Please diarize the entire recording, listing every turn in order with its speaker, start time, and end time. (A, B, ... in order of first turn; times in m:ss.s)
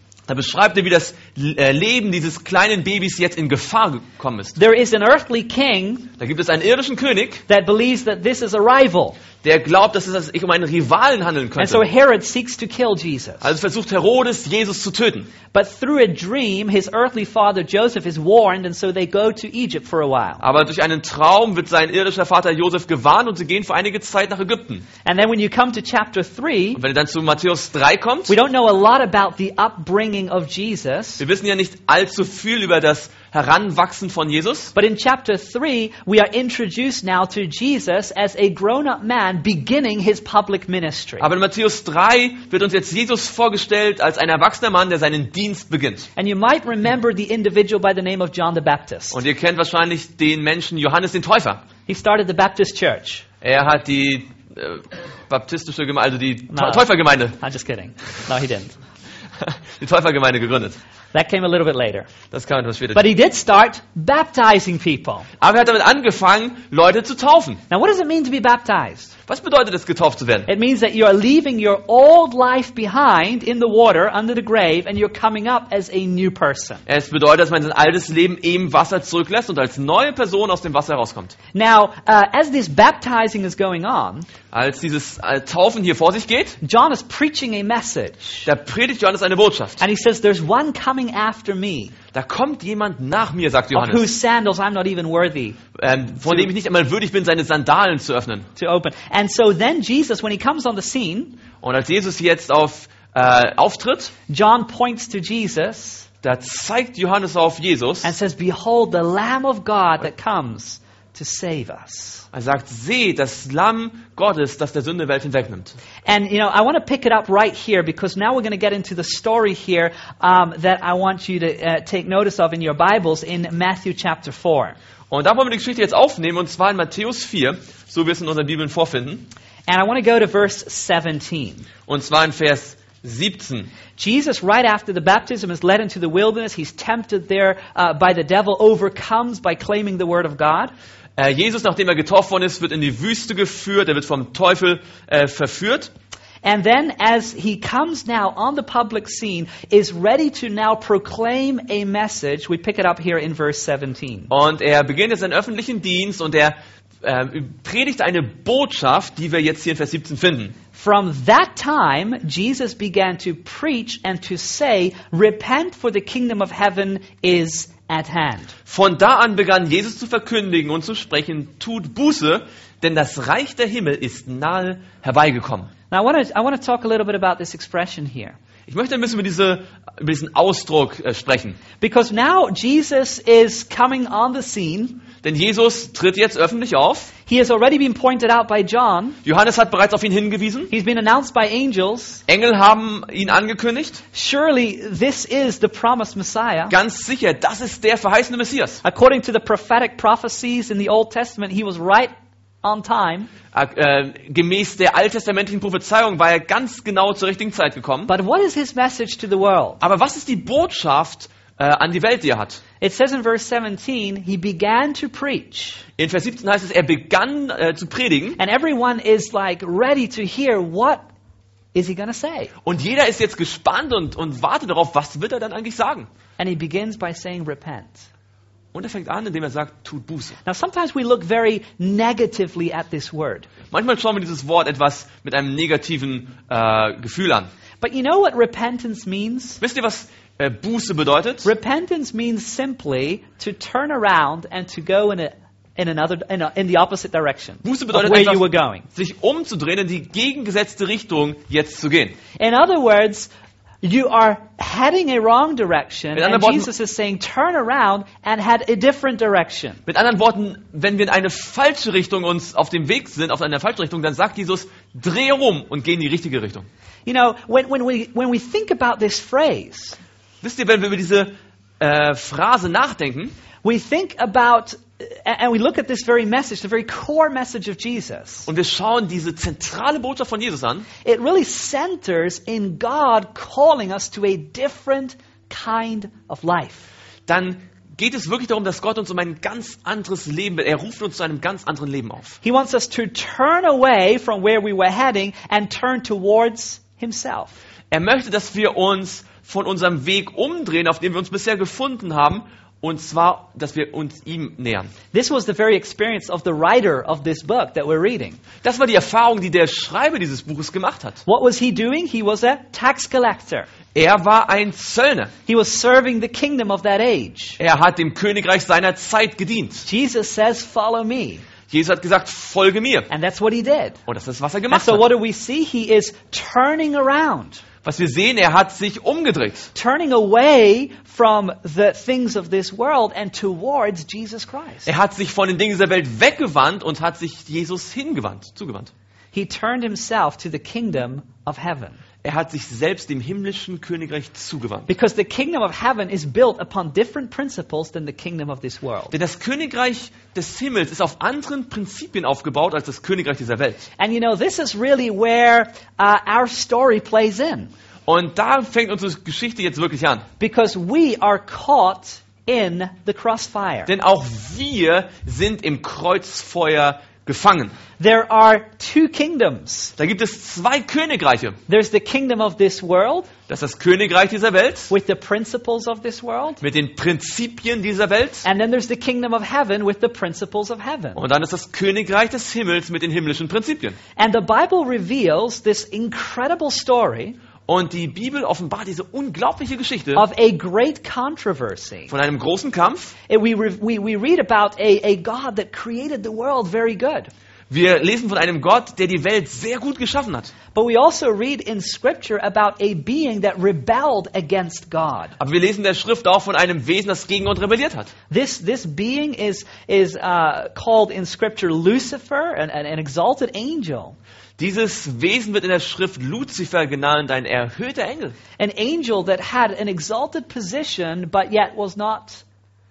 0:00.3-0:04.6 A
0:04.6-0:06.1 B
0:06.2-0:07.4 A
0:07.5-0:09.2 B
0:09.4-0:11.9 A
0:11.6-0:13.5 B
0:13.4-0:15.3 A
0:15.5-0:20.4 B
0:20.4-0:24.8 A
0:25.0-0:26.8 B
0:26.8-0:28.3 A
0:28.3-0:31.2 B
0:31.2-0:34.7 A
0:34.7-0:41.2 B
0:41.2-0:46.1 A
0:46.2-0:49.2 B
0:49.1-0:51.6 A
0:51.9-0:53.2 B
0:53.4-0:57.4 A
0:56.5-0:58.7 B
0:59.4-1:00.8 A
1:01.1-1:02.1 B
1:02.3-1:03.0 A
1:02.9-1:05.3 B
1:05.4-1:07.6 A
1:07.7-1:09.1 B
1:09.3-1:10.5 A
1:10.5-1:16.8 B
1:16.8-1:21.3 A
1:21.5-1:24.3 B
1:24.5-1:26.6 A
1:26.6-1:28.5 B
1:28.4-1:29.8 A
1:29.8-1:31.9 B
1:32.1-1:34.1 A
1:33.7-1:35.6 B
1:35.7-1:38.5 A
1:38.6-1:41.4 B
1:41.6-1:44.1 A
1:44.3-1:46.0 B
1:46.2-1:48.1 A
1:48.0-1:52.2 B
1:52.3-1:55.8 A
1:56.0-2:04.8 B
2:05.1-2:09.3 A
2:09.7-2:11.6 B
2:11.9-2:13.7 A
2:14.0-2:20.7 B
2:21.2-2:25.9 A
2:26.4-2:34.3 B
2:34.3-2:40.5 A
2:40.7-2:48.5 B
2:48.7-2:55.7 A
2:55.9-2:58.4 B
2:58.7-3:01.6 A
3:01.8-3:05.0 B
3:05.2-3:07.1 A
3:07.2-3:09.2 B
3:09.2-3:10.7 A
3:10.7-3:12.2 B
3:12.3-3:14.0 A
3:14.1-3:16.7 B
3:16.7-3:18.8 A
3:18.8-3:23.3 B
3:23.5-3:28.1 A
3:28.1-3:29.8 B
3:29.8-3:32.6 A
3:32.8-3:35.8 B
3:36.0-3:38.4 A
3:38.4-3:41.0 B
3:41.7-3:42.5 B
3:42.6-3:46.1 A
3:46.4-3:48.1 B
3:48.7-3:50.4 A
3:50.4-3:53.5 B
3:53.7-3:57.5 A
3:57.8-3:59.6 B
3:59.6-4:01.5 A
4:01.4-4:08.9 B
4:07.6-4:12.2 A
4:12.4-4:13.3 B
4:13.8-4:19.8 B
4:16.1-4:16.7 A
4:19.9-4:26.7 A
4:27.0-4:30.0 B
4:30.4-4:33.3 A
4:33.6-4:38.5 B
4:38.4-4:40.9 A
4:41.0-4:46.9 B
4:47.3-4:52.4 A
4:52.4-4:57.6 B
4:57.9-5:04.9 A
5:05.1-5:08.4 B
5:08.6-5:11.2 A
5:11.2-5:13.7 B
5:13.9-5:15.3 A
5:15.5-5:17.6 B
5:17.6-5:19.9 A
5:19.8-5:21.4 B
5:21.7-5:23.1 A
5:23.1-5:24.0 B
5:24.0-5:25.0 A
5:24.7-5:27.6 B
5:27.8-5:29.7 A
5:29.7-5:34.9 B
5:34.8-5:38.9 A
5:39.3-5:42.0 B
5:42.2-5:44.9 A
5:44.9-5:49.1 B
5:49.1-5:53.8 A
5:54.0-5:57.7 B
5:58.1-6:00.2 A
6:00.4-6:03.9 B
6:03.9-6:07.7 A
6:08.0-6:09.9 B
6:10.0-6:11.6 A
6:11.7-6:13.3 B
6:13.5-6:14.9 A
6:14.9-6:16.6 B
6:16.6-6:18.4 A
6:18.4-6:21.2 B
6:21.2-6:24.0 A
6:24.2-6:27.4 B
6:27.7-6:30.2 A
6:30.1-6:32.1 B
6:32.1-6:33.1 A
6:33.3-6:37.3 B
6:37.7-6:40.5 A
6:40.7-6:45.3 B
6:45.4-6:48.1 A
6:48.3-6:54.2 B
6:54.6-6:58.4 A
6:58.6-7:02.4 B